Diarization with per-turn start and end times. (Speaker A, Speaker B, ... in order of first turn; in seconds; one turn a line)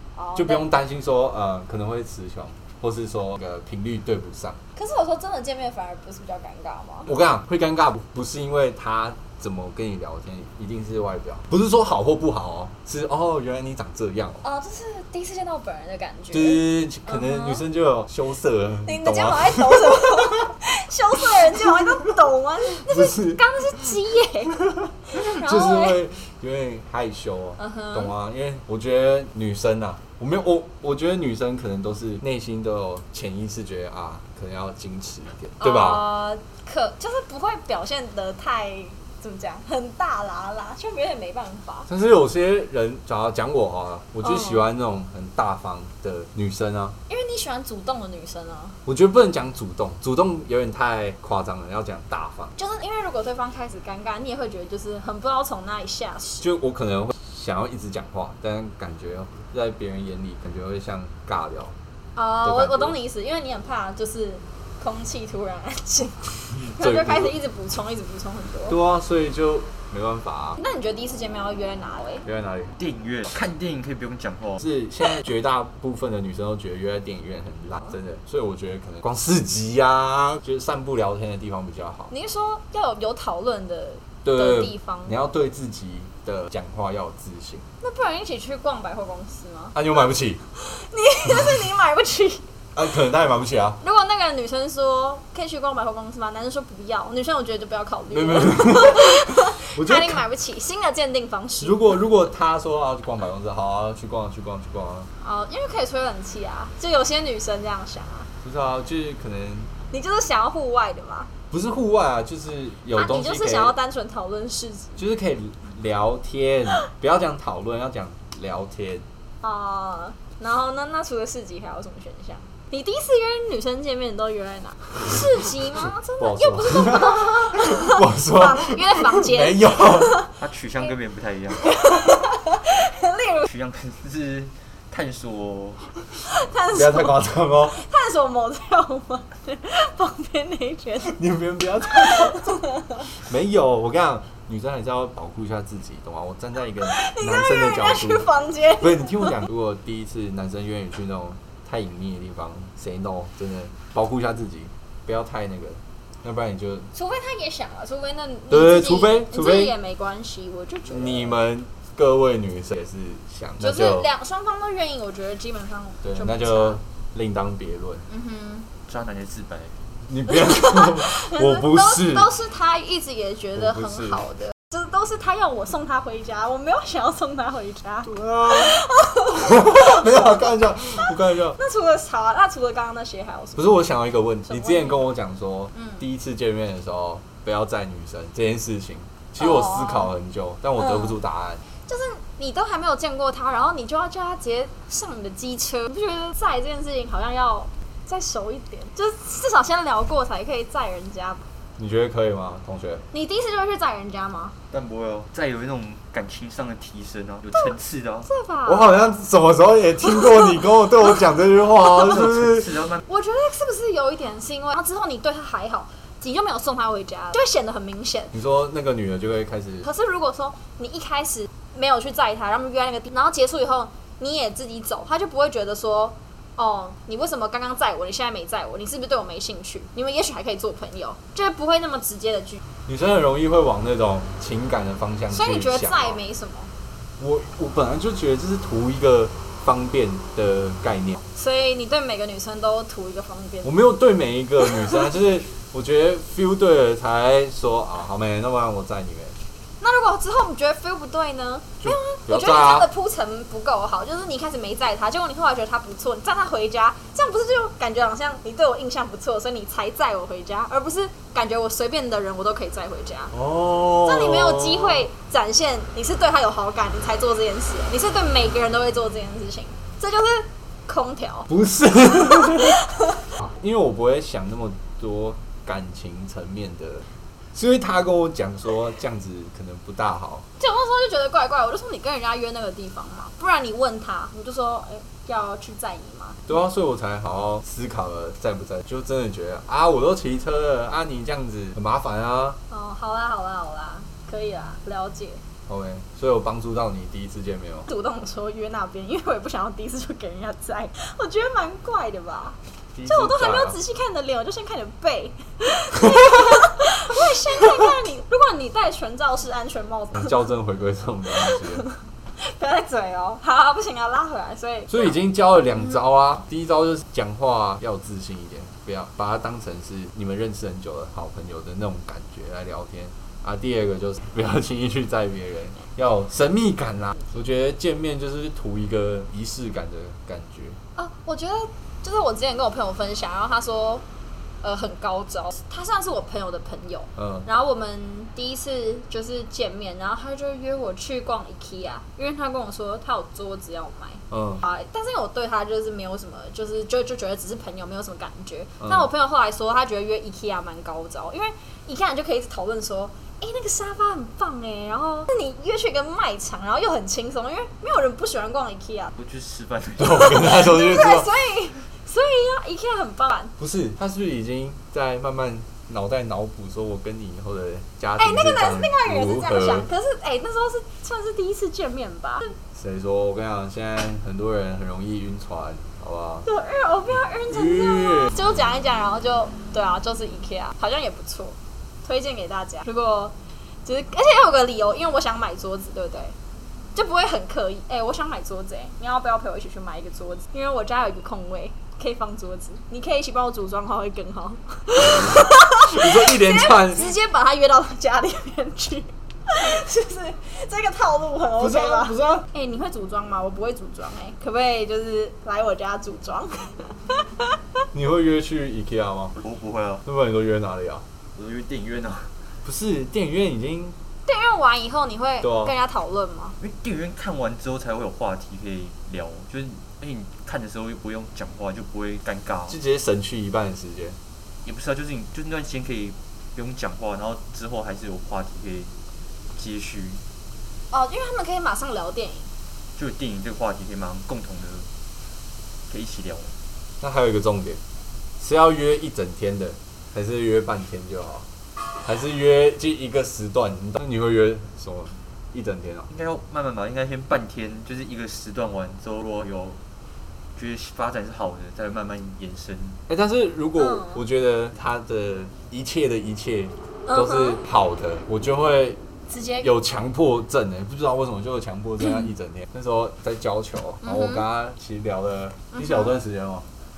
Speaker A: 0.1-0.7
Speaker B: 0.3-4.6
Speaker A: 4.7-7.1
Speaker B: 7.1-14.4
Speaker A: 14.4-17.6
Speaker B: 16.3-20.5
Speaker A: 18.9-26.0
Speaker B: 21.4-22.1
Speaker B: 22.8-23.9
Speaker B: 25.1-36.1
Speaker A: 27.6-28.1
Speaker A: 35.6-41.9
Speaker B: 41.9-47.0
Speaker A: 44.2-44.6
Speaker A: 47.1-48.8
Speaker B: 48.9-52.5
Speaker A: 52.5-56.4
Speaker B: 56.4-61.7
Speaker A: 62.1-68.8
Speaker B: 62.4-63.0
Speaker B: 66.6-67.4
Speaker B: 68.7-70.6
Speaker A: 70.6-72.2
Speaker B: 72.2-72.8
Speaker C: 72.8-74.6
Speaker B: 74.6-82.1
Speaker A: 82.1-85.3
Speaker B: 84.2-87.6
Speaker A: 87.8-89.8
Speaker B: 89.7-90.4
Speaker A: 90.5-92.5
Speaker B: 92.7-93.8
Speaker A: 93.8-101.8
Speaker B: 98.1-100.2
Speaker B: 101.6-105.1
Speaker A: 105.2-108.3
Speaker B: 108.4-109.7
Speaker A: 109.9-111.3
Speaker B: 111.5-113.7
Speaker A: 112.9-115.0
Speaker B: 115.0-119.0
Speaker A: 119.4-130.3
Speaker B: 126.2-130.3
Speaker C: 130.4-131.7
Speaker A: 131.6-133.5
Speaker C: 133.4-135.9
Speaker A: 136.2-141.2
Speaker B: 136.7-137.8
Speaker B: 141.0-156.9
Speaker A: 142.1-142.8
Speaker A: 146.8-149.3
Speaker A: 156.9-161.4
Speaker B: 158.5-159.7
Speaker B: 160.8-164.1
Speaker A: 163.6-166.8
Speaker B: 166.0-168.1
Speaker A: 168.1-168.7
Speaker C: 168.9-169.8
Speaker B: 170.1-172.3
Speaker A: 170.3-180.5
Speaker B: 173.5-174.2
Speaker B: 178.0-181.6
Speaker A: 181.0-183.9
Speaker B: 183.6-191.6
Speaker A: 184.5-185.1
Speaker A: 185.7-186.0
Speaker A: 189.4-190.1
Speaker A: 190.8-191.2
Speaker A: 191.8-201.4
Speaker B: 201.8-203.0
Speaker A: 203.1-204.5
Speaker C: 204.7-208.3
Speaker A: 207.5-209.1
Speaker B: 208.7-212.8
Speaker A: 210.1-210.9
Speaker C: 211.9-213.0
Speaker A: 213.0-218.3
Speaker B: 218.3-219.9
Speaker A: 219.8-232.6
Speaker B: 232.9-236.2
Speaker A: 235.3-236.7
Speaker B: 237.2-241.2
Speaker A: 241.3-243.8
Speaker B: 243.6-249.4
Speaker A: 244.7-245.0
Speaker A: 249.8-263.3
Speaker B: 251.8-252.9
Speaker B: 263.3-265.1
Speaker A: 264.0-271.5
Speaker B: 271.5-272.8
Speaker A: 272.1-273.3
Speaker B: 273.4-280.4
Speaker A: 280.6-286.4
Speaker B: 286.5-292.6
Speaker A: 292.7-295.4
Speaker B: 295.7-297.9
Speaker A: 297.9-310.5
Speaker B: 302.9-303.8
Speaker B: 310.1-311.9
Speaker A: 311.3-315.1
Speaker B: 314.9-330.8
Speaker A: 330.9-334.0
Speaker A: 334.6-359.1
Speaker B: 337.2-337.4
Speaker B: 344.3-344.6
Speaker C: 359.1-360.8
Speaker B: 360.0-361.3
Speaker A: 360.3-363.5
Speaker B: 363.6-369.9
Speaker A: 368.2-372.5
Speaker B: 372.7-376.5
Speaker A: 376.4-386.3
Speaker B: 377.5-378.4
Speaker A: 386.9-407.5
Speaker B: 395.0-397.2
Speaker B: 401.6-402.5
Speaker B: 407.9-409.4
Speaker C: 409.4-410.0
Speaker B: 410.0-411.0
Speaker C: 411.3-412.3
Speaker B: 412.6-413.9
Speaker A: 414.2-416.6
Speaker B: 415.4-415.8
Speaker C: 416.6-422.8
Speaker B: 422.7-424.2
Speaker C: 424.6-428.9
Speaker C: 429.5-430.2
Speaker A: 430.9-432.5
Speaker C: 432.9-434.9
Speaker C: 435.9-436.5
Speaker B: 437.0-437.8
Speaker B: 438.4-441.4
Speaker B: 442.0-446.1
Speaker C: 446.1-449.8
Speaker C: 450.5-453.0
Speaker B: 453.1-459.0
Speaker A: 453.8-454.2
Speaker A: 457.1-457.6
Speaker A: 459.3-459.7
Speaker B: 459.6-466.6
Speaker A: 464.0-464.4
Speaker A: 465.7-466.1